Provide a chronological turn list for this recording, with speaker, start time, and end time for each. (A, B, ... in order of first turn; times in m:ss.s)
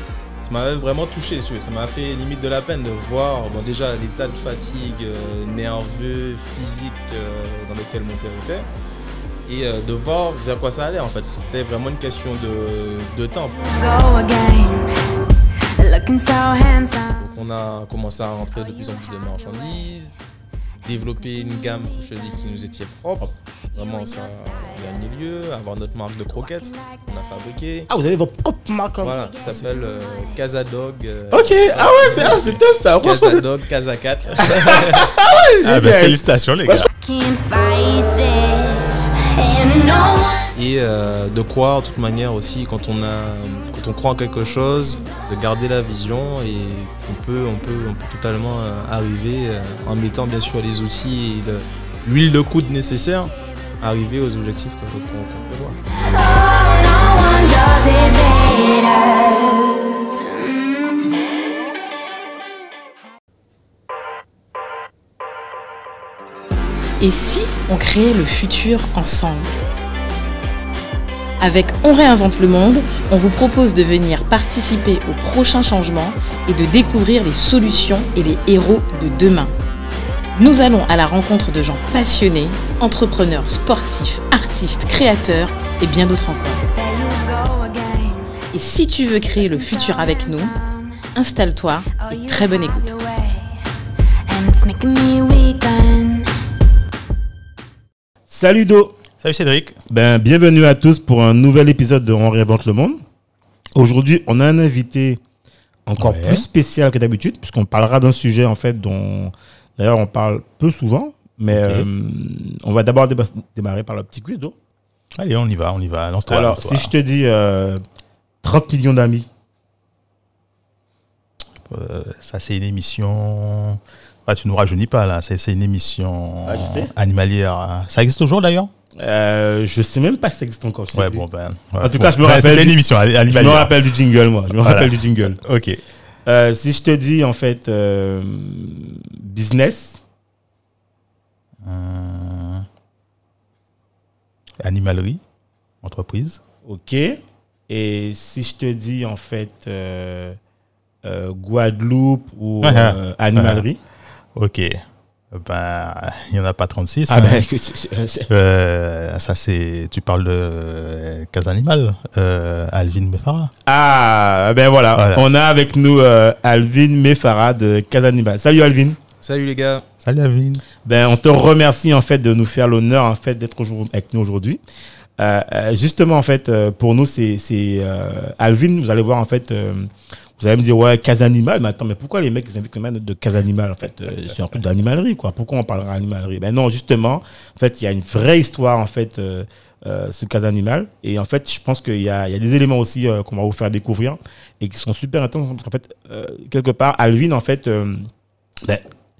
0:00.4-0:08.7 A
0:09.4-0:13.6 A
0:13.5-0:14.9 B
0:15.8-0:17.3 B
0:17.2-0:20.2 A
0:18.5-0:19.9 B
0:20.8-0:27.9 A
0:20.9-0:22.7 B
0:23.7-0:25.6 B
0:26.3-0:27.6 B
0:27.9-0:29.6 C
0:28.9-0:30.4 B
0:29.0-0:35.1 A
0:31.3-0:33.4 C
0:34.4-0:36.9 C
0:35.6-0:36.9 D
0:36.7-0:40.4 B
0:40.5-0:55.8 A
0:56.0-1:00.6 B
1:07.0-1:09.6 E
1:11.4-1:19.5 E
1:20.4-1:26.6 E
1:26.7-1:28.3 B
1:28.5-1:30.5 E
1:29.2-1:31.2 B
1:31.1-1:32.9 E
1:31.9-1:33.6 B
1:34.3-1:36.3 B
1:38.3-1:39.0 C
1:39.2-1:39.8 D
1:39.9-1:43.0 C
1:43.8-1:45.2 C
1:45.8-1:54.5 C
1:46.0-1:46.4 D
1:51.5-1:51.9 D
1:55.2-1:56.9 D
1:56.3-1:57.8 C
1:58.4-1:59.3 C
2:01.6-2:08.7 D
2:06.4-2:06.9 C
2:09.0-2:11.2 C
2:10.9-2:13.7 D
2:11.8-2:15.4 C
2:14.5-2:15.8 D
2:16.2-2:20.0 C
2:21.6-2:22.6 D
2:24.6-2:25.2 D
2:25.8-2:26.4 D
2:26.6-2:30.4 C
2:31.0-2:33.8 C
2:32.6-2:33.6 D
2:34.4-2:34.8 D
2:35.3-2:37.4 D
2:37.1-2:38.3 C
2:38.3-2:43.5 D
2:43.6-2:49.0 C
2:45.0-2:45.2 D
2:49.2-2:49.8 A
2:50.0-2:50.6 D
2:50.8-2:54.6 C
2:55.2-3:18.1 C